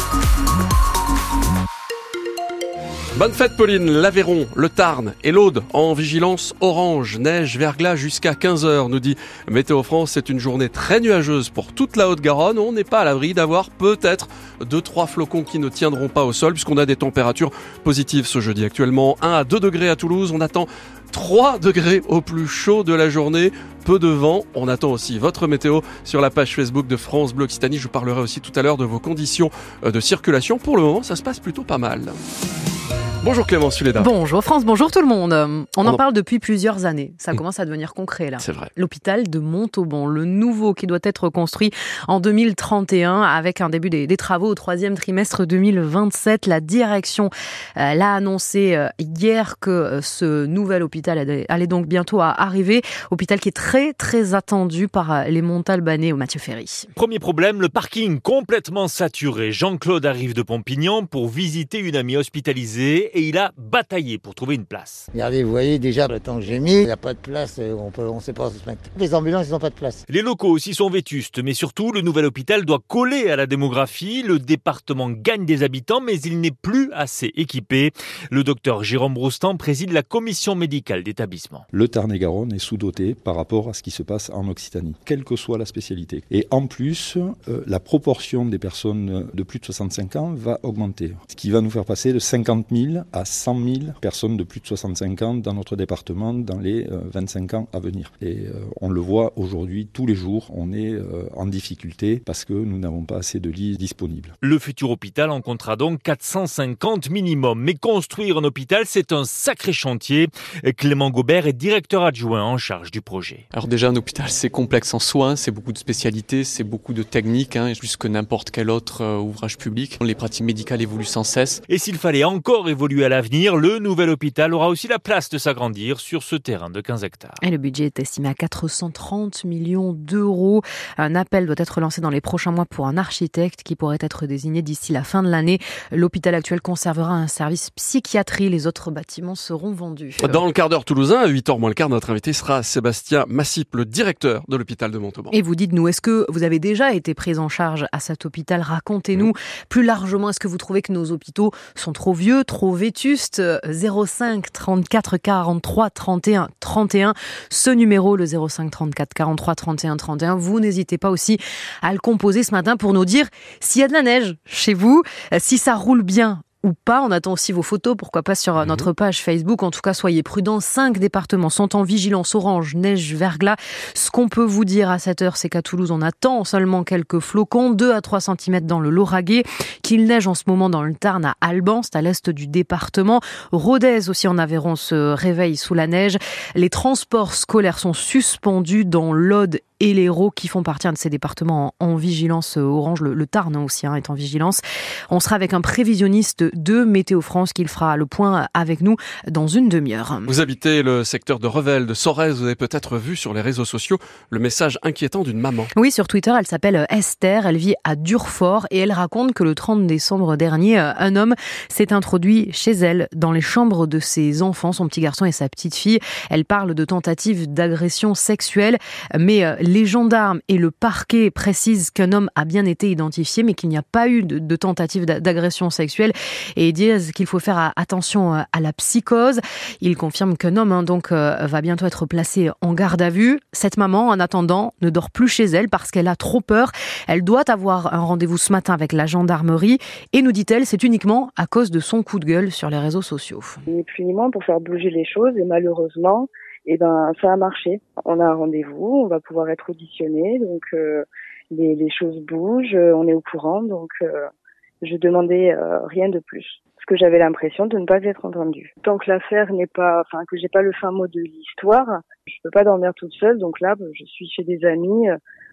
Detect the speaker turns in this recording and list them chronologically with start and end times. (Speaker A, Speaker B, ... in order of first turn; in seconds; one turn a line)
Speaker A: 3.1-32.2
Speaker A: 33.2-34.1
Speaker B: 34.0-56.9
Speaker A: 38.4-38.7
Speaker C: 57.0-65.1
Speaker D: 65.1-70.0
Speaker C: 70.1-81.7
Speaker E: 81.7-104.3
Speaker C: 104.4-113.4
Speaker F: 113.5-121.6
Speaker C: 121.7-127.4
Speaker B: 127.4-140.4
Speaker A: 140.2-145.3
Speaker B: 145.3-200.3
Speaker A: 200.3-205.7
Speaker B: 205.8-243.6
Speaker G: 243.7-254.2
Speaker G: 254.8-265.1